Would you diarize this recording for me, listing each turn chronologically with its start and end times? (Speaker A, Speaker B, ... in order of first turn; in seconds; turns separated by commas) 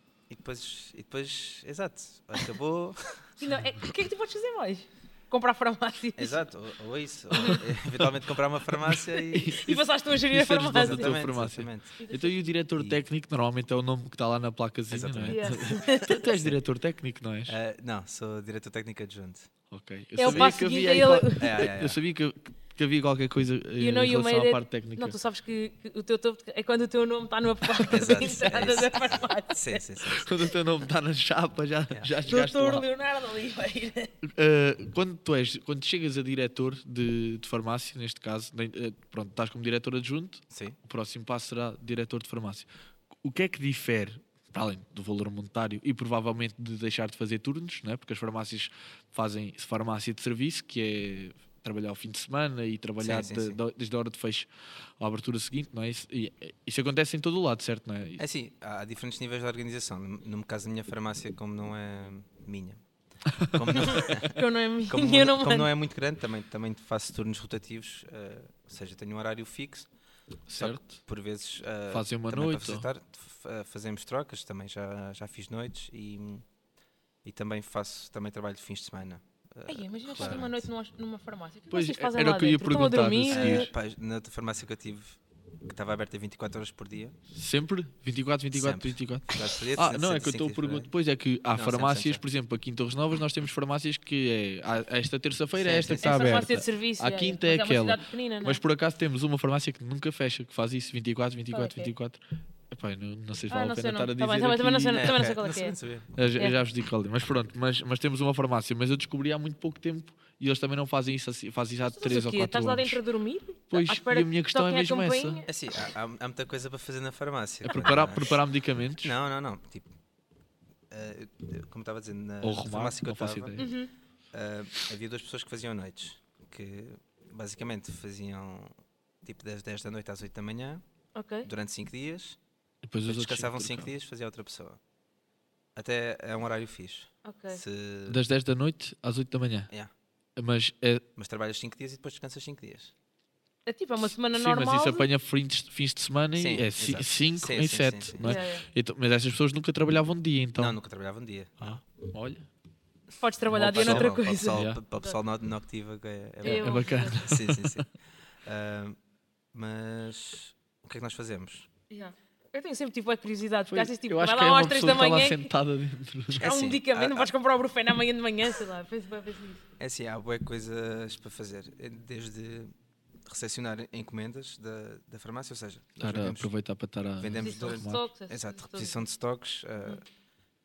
Speaker A: 0.3-3.2, Speaker B: 3.4-6.4, Speaker A: 6.2-9.6, Speaker B: 7.3-7.6, Speaker C: 9.3-17.6, Speaker B: 9.5-11.2, Speaker A: 10.7-11.9, Speaker B: 12.0-12.4, Speaker A: 14.9-16.6, Speaker B: 15.3-16.1, Speaker A: 17.5-19.5, Speaker C: 19.7-25.1, Speaker B: 20.2-21.7, Speaker A: 20.2-20.6, Speaker A: 21.4-22.0, Speaker B: 23.8-29.8, Speaker A: 27.9-30.3, Speaker C: 30.1-32.9, Speaker B: 32.3-34.1, Speaker C: 34.2-42.7, Speaker A: 40.5-40.8, Speaker C: 43.2-54.5, Speaker A: 53.0-53.6, Speaker C: 55.0-58.2, Speaker A: 58.2-62.8, Speaker C: 63.4-64.0, Speaker A: 63.4-69.9, Speaker B: 63.8-65.7, Speaker C: 70.5-71.0, Speaker A: 70.5-76.5, Speaker C: 71.9-72.9, Speaker A: 77.2-80.7, Speaker B: 79.7-83.7, Speaker C: 80.2-80.4, Speaker C: 81.7-83.7, Speaker A: 83.3-87.2, Speaker C: 87.3-105.2, Speaker A: 88.5-90.9, Speaker A: 91.5-92.2, Speaker A: 95.6-96.4, Speaker B: 96.0-98.6, Speaker B: 101.5-101.9, Speaker B: 103.5-105.8, Speaker A: 104.9-106.2, Speaker C: 106.2-113.0, Speaker B: 111.9-115.5, Speaker C: 113.7-115.4, Speaker A: 115.5-118.4, Speaker C: 117.6-119.1, Speaker A: 119.0-119.9, Speaker A: 120.9-123.6, Speaker C: 122.4-123.7, Speaker B: 123.6-123.9, Speaker A: 124.3-130.8, Speaker B: 131.1-131.5, Speaker A: 131.4-132.4, Speaker C: 132.8-133.9, Speaker A: 133.1-134.8, Speaker A: 135.8-138.2, Speaker B: 137.2-137.6, Speaker C: 138.1-139.7, Speaker C: 140.3-141.0, Speaker A: 141.2-142.9, Speaker B: 143.7-145.1, Speaker C: 144.0-150.8, Speaker A: 146.3-148.4, Speaker B: 148.2-148.6, Speaker A: 150.6-151.8, Speaker C: 151.6-152.5, Speaker B: 153.2-155.2, Speaker A: 153.5-157.9, Speaker C: 153.5-154.8, Speaker B: 156.4-157.2, Speaker C: 156.4-157.8, Speaker A: 158.4-159.0, Speaker A: 159.5-161.7, Speaker B: 161.9-165.5, Speaker C: 163.7-166.4, Speaker B: 166.4-169.6, Speaker A: 166.4-167.3, Speaker A: 169.8-172.7, Speaker A: 173.2-176.5, Speaker C: 176.0-178.0, Speaker A: 177.2-180.0, Speaker B: 177.4-179.0